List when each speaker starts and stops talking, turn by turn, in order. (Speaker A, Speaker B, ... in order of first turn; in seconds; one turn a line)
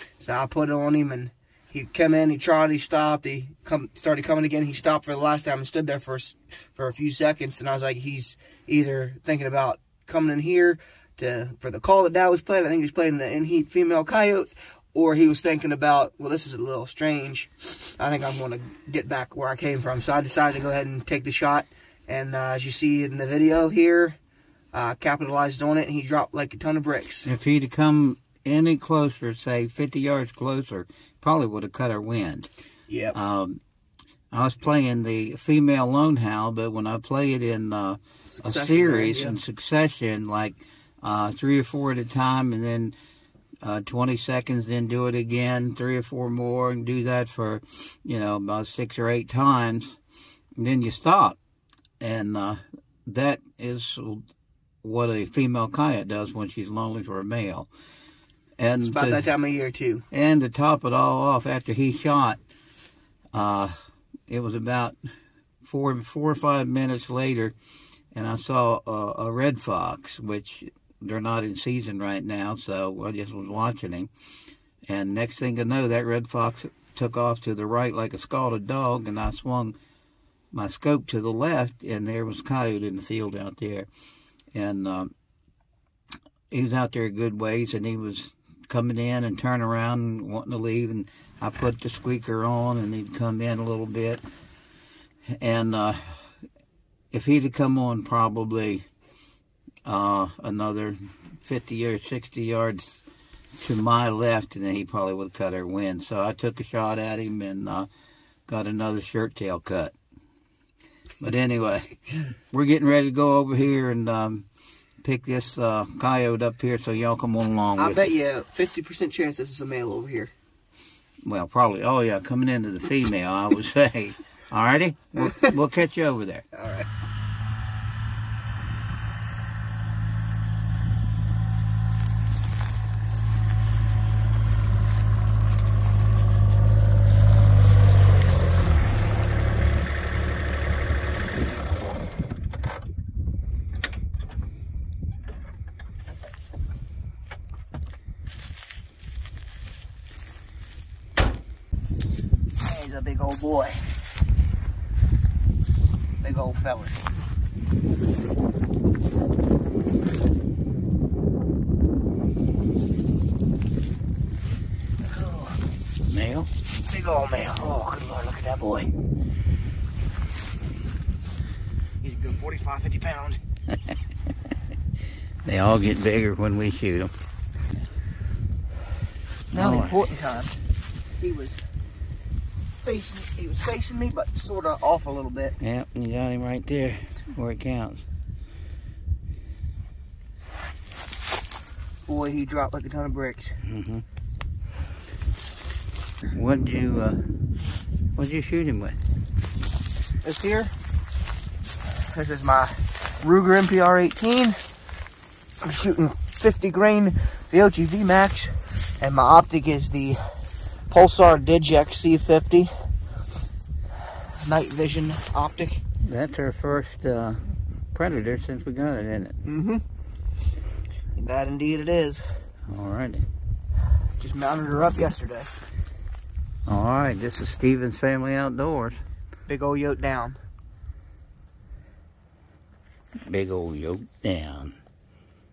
Speaker A: 0.2-24.2
Speaker A: 24.7-27.3
Speaker B: 27.2-32.5
Speaker A: 32.9-33.1
Speaker B: 33.1-33.6
Speaker B: 34.3-42.9
Speaker A: 38.3-39.4
Speaker B: 43.6-49.9
Speaker B: 50.6-51.4
Speaker B: 52.0-54.2
Speaker B: 54.8-57.7
Speaker B: 58.6-59.3
Speaker A: 58.8-60.0
Speaker B: 60.1-62.4
Speaker B: 63.3-63.7
Speaker B: 64.3-65.0
Speaker B: 65.6-67.5
Speaker B: 68.1-74.1
Speaker B: 74.8-79.8
Speaker B: 80.5-83.9
Speaker B: 84.5-85.1
Speaker B: 86.5-94.2
Speaker B: 95.4-96.2
Speaker B: 97.1-98.8
Speaker B: 99.8-103.0
Speaker B: 103.6-107.9
Speaker B: 108.5-109.9
Speaker B: 111.2-112.0
Speaker B: 112.5-114.5
Speaker B: 115.0-118.1
Speaker A: 117.8-120.3
Speaker B: 121.2-126.4
Speaker A: 126.5-126.9
Speaker A: 152.6-154.0
Speaker A: 156.2-157.0
Speaker A: 165.1-165.6
Speaker B: 166.1-166.5
Speaker A: 166.8-168.9
Speaker A: 172.0-173.4
Speaker B: 175.4-177.1
Speaker A: 179.5-180.5
Speaker B: 179.5-180.0
Speaker A: 181.2-181.6
Speaker A: 182.8-185.6
Speaker B: 185.6-188.0
Speaker A: 192.1-193.6
Speaker B: 193.6-194.0
Speaker B: 196.3-197.2
Speaker B: 198.2-199.0
Speaker A: 200.2-200.7
Speaker A: 201.9-204.6
Speaker A: 205.6-212.7
Speaker A: 214.4-215.8
Speaker B: 216.0-219.4
Speaker A: 219.4-219.8
Speaker A: 221.2-222.4
Speaker B: 222.7-223.2
Speaker A: 224.2-225.5
Speaker B: 226.7-229.0
Speaker A: 229.5-230.4
Speaker B: 233.3-234.8